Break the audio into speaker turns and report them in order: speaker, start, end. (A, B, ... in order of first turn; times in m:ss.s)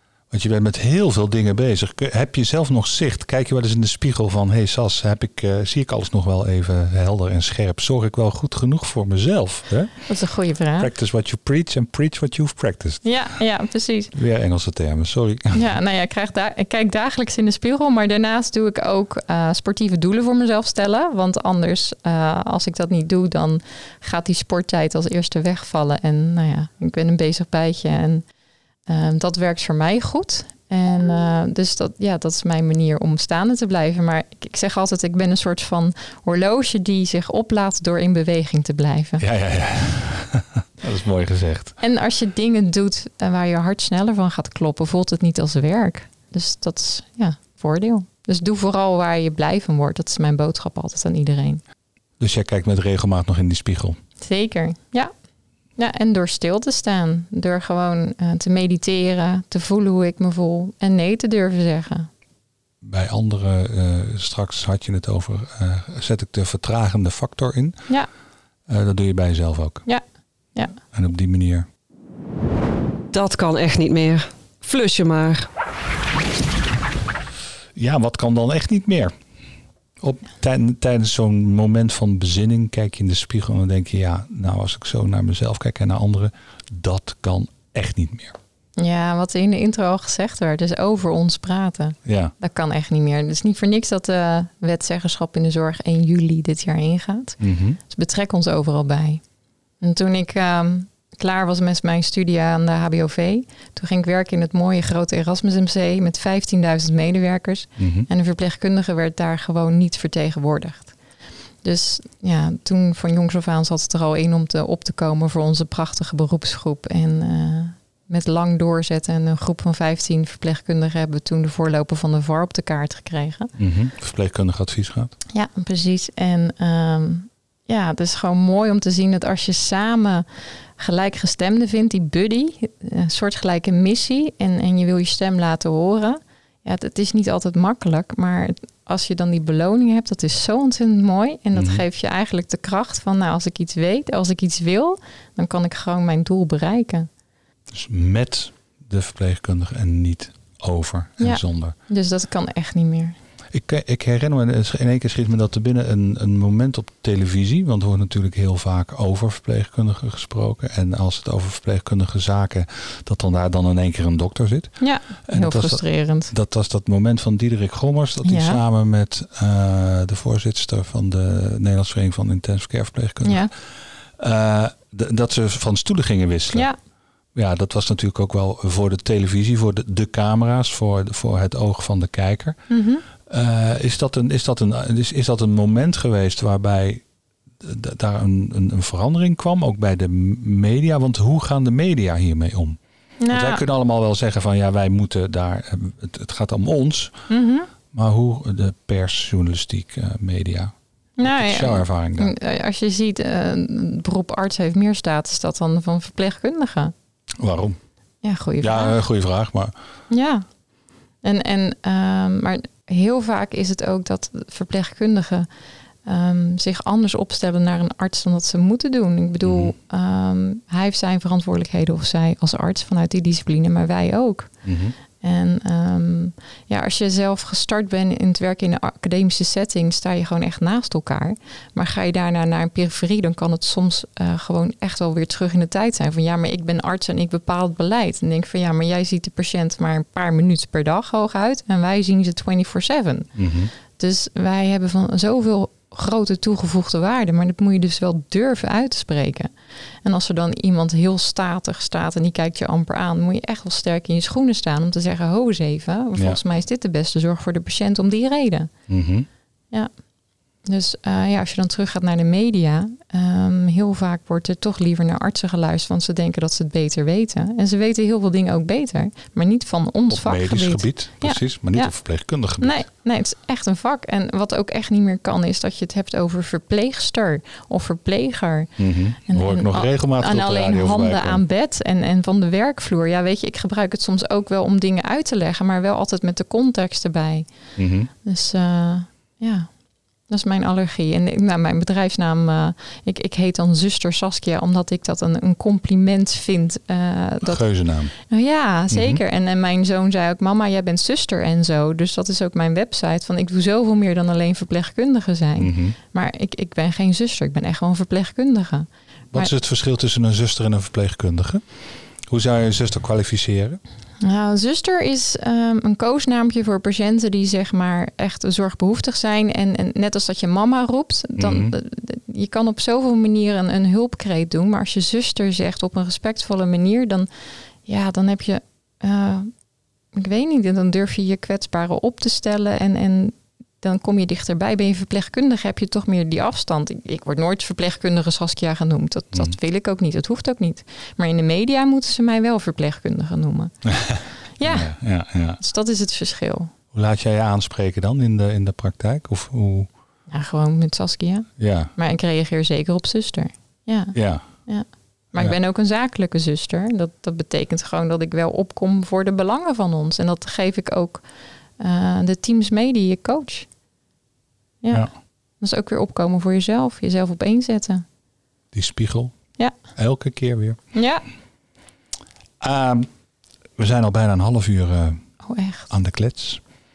0:00.3-0:09.9 A
0:10.1-0:10.9 B
0:10.8-0:13.0 A
0:13.0-0:14.1 B
0:14.1-0:15.6 A
0:15.5-0:28.2 B
0:28.9-0:39.2 B
0:39.2-0:41.8 A
0:41.8-0:51.6 B
0:52.2-0:54.0 A
0:54.2-0:55.1 B
0:55.8-1:02.1 B
1:02.8-1:07.8 A
1:08.7-1:09.8 A
1:10.9-1:11.7 A
1:13.1-1:15.5 C
1:17.7-1:19.1 A
1:20.0-1:28.4 A
1:28.8-1:37.4 B
1:32.0-1:32.3 A
1:37.4-1:37.8 A
1:37.9-1:39.2 B
1:39.8-1:51.0 B
1:47.8-1:48.1 A
1:51.6-2:03.5 B
2:03.6-2:05.1 A
2:05.3-2:10.3 B
2:10.8-2:27.1 B
2:21.5-2:21.8 A
2:27.7-2:31.7 A
2:31.2-2:33.2 B
2:33.5-2:53.5 A
2:44.8-2:46.3 B
2:48.2-2:48.6 B
2:53.2-2:53.5 B
2:54.2-2:56.7 A
2:57.3-3:02.6 A
3:02.7-3:03.0 B
3:03.2-3:07.0 A
3:07.6-3:12.8 A
3:13.2-3:13.6 B
3:13.3-3:17.1 A
3:17.3-3:17.7 B
3:17.9-3:22.3 A
3:21.2-3:26.9 B
3:27.4-3:27.8 A
3:28.2-3:29.0 B
3:28.6-3:29.7 A
3:30.1-3:30.4 B
3:31.2-3:35.5 B
3:36.0-3:44.5 B
3:39.4-3:39.7 A
3:44.6-3:45.0 A
3:45.2-4:03.3 B
4:03.4-4:03.7 A
4:03.9-4:09.5 B
4:10.0-4:18.7 B
4:16.1-4:16.4 A
4:18.9-4:19.3 A
4:20.6-4:31.9 B
4:30.1-4:32.8 A
4:32.6-4:38.7 B
4:38.8-4:41.4 A
4:39.3-4:47.5 B
4:47.8-4:48.1 A
4:48.2-4:49.7 B
4:50.3-4:57.6 B
4:57.4-4:58.1 A
4:58.2-5:09.5 B
4:58.9-4:59.2 A
5:05.6-5:06.0 A
5:09.3-5:11.6 A
5:12.3-5:13.8 A
5:14.2-5:27.3 B
5:21.4-5:21.7 A
5:27.8-5:29.5 B
5:30.1-5:43.7 B
5:43.8-5:45.6 A
5:44.6-5:44.9 B
5:45.6-5:46.7 B
5:46.9-5:49.9 A
5:50.3-6:01.2 B
5:51.6-5:51.9 A
5:54.1-5:54.4 A
6:01.8-6:03.7 B
6:04.8-6:05.1 B
6:05.6-6:08.0 B
6:08.7-6:09.3 A
6:09.9-6:10.8 A
6:10.9-6:11.2 B
6:12.6-6:13.1 A
6:13.8-6:15.2 A
6:15.4-6:15.9 B
6:15.9-6:16.6 A